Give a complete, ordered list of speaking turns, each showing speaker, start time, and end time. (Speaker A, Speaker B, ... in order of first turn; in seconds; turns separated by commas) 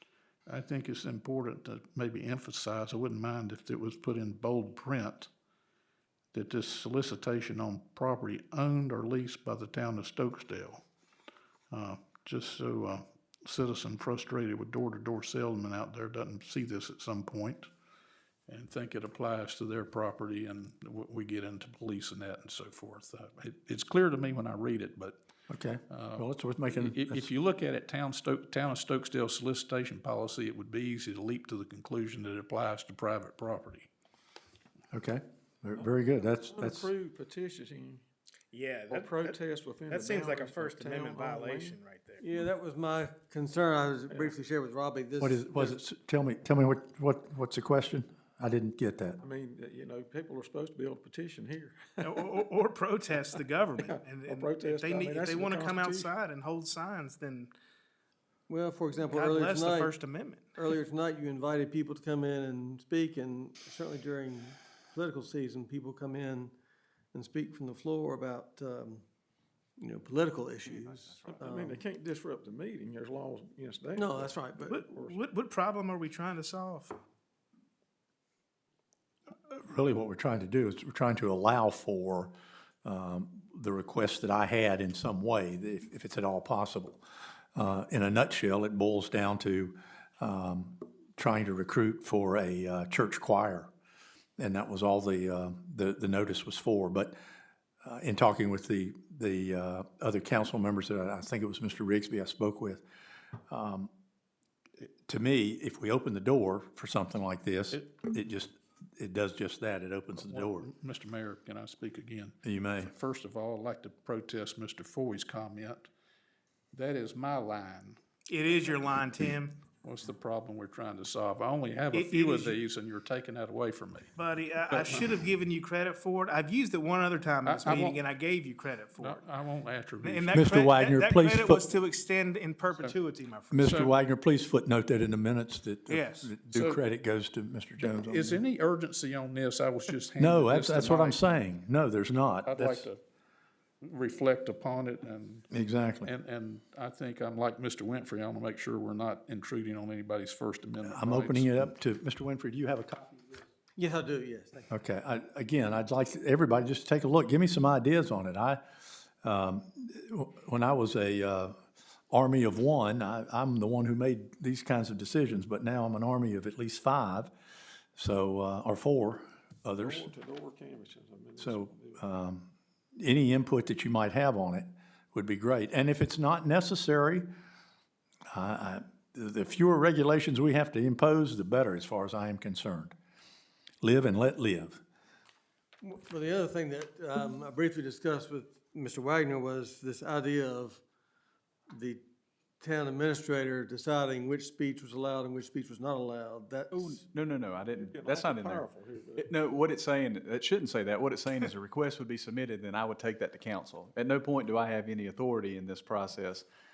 Speaker A: 0.5-5.3, Speaker A: 6.3-10.8, Speaker A: 11.7-17.7, Speaker A: 18.5-25.2, Speaker B: 25.5-27.3, Speaker A: 25.9-33.9, Speaker B: 34.9-36.9, Speaker C: 36.4-38.0, Speaker D: 38.5-39.4, Speaker C: 38.9-41.8, Speaker D: 39.9-42.2, Speaker E: 42.2-45.6, Speaker B: 45.2-49.2, Speaker C: 49.2-52.2, Speaker D: 52.0-57.5, Speaker C: 53.8-56.1, Speaker E: 58.5-59.9, Speaker D: 59.1-60.5, Speaker E: 60.6-66.5, Speaker E: 67.1-69.0, Speaker E: 69.8-71.8, Speaker F: 70.7-71.3, Speaker C: 71.3-75.2, Speaker E: 74.0-74.9, Speaker D: 74.7-77.0, Speaker B: 79.5-82.3, Speaker B: 82.8-87.0, Speaker B: 87.5-93.7, Speaker B: 94.4-97.2, Speaker B: 97.8-102.8, Speaker B: 103.5-103.9, Speaker B: 105.1-110.7, Speaker A: 110.2-115.9, Speaker B: 112.4-112.9, Speaker A: 116.7-118.0, Speaker D: 118.3-119.5, Speaker A: 119.8-124.1, Speaker D: 121.9-122.6, Speaker D: 124.2-129.3, Speaker A: 124.7-125.1, Speaker A: 127.5-128.0, Speaker A: 129.0-130.4, Speaker D: 130.0-133.8, Speaker B: 130.3-131.7, Speaker B: 133.5-138.4, Speaker A: 133.6-133.9, Speaker D: 135.9-136.3, Speaker A: 136.5-136.8, Speaker A: 137.8-141.4, Speaker B: 140.2-142.9, Speaker A: 142.5-143.0, Speaker A: 143.8-145.5, Speaker B: 145.5-146.1, Speaker A: 146.0-151.7, Speaker B: 150.8-153.4, Speaker E: 153.8-154.8, Speaker B: 154.7-158.6, Speaker B: 159.2-161.6, Speaker B: 162.1-167.3, Speaker B: 168.0-170.1, Speaker C: 169.8-172.0, Speaker B: 171.4-177.3, Speaker B: 178.3-182.9, Speaker B: 183.8-184.8, Speaker E: 185.8-190.8, Speaker E: 191.7-192.0, Speaker E: 192.6-197.0, Speaker F: 196.8-206.4, Speaker C: 197.7-199.3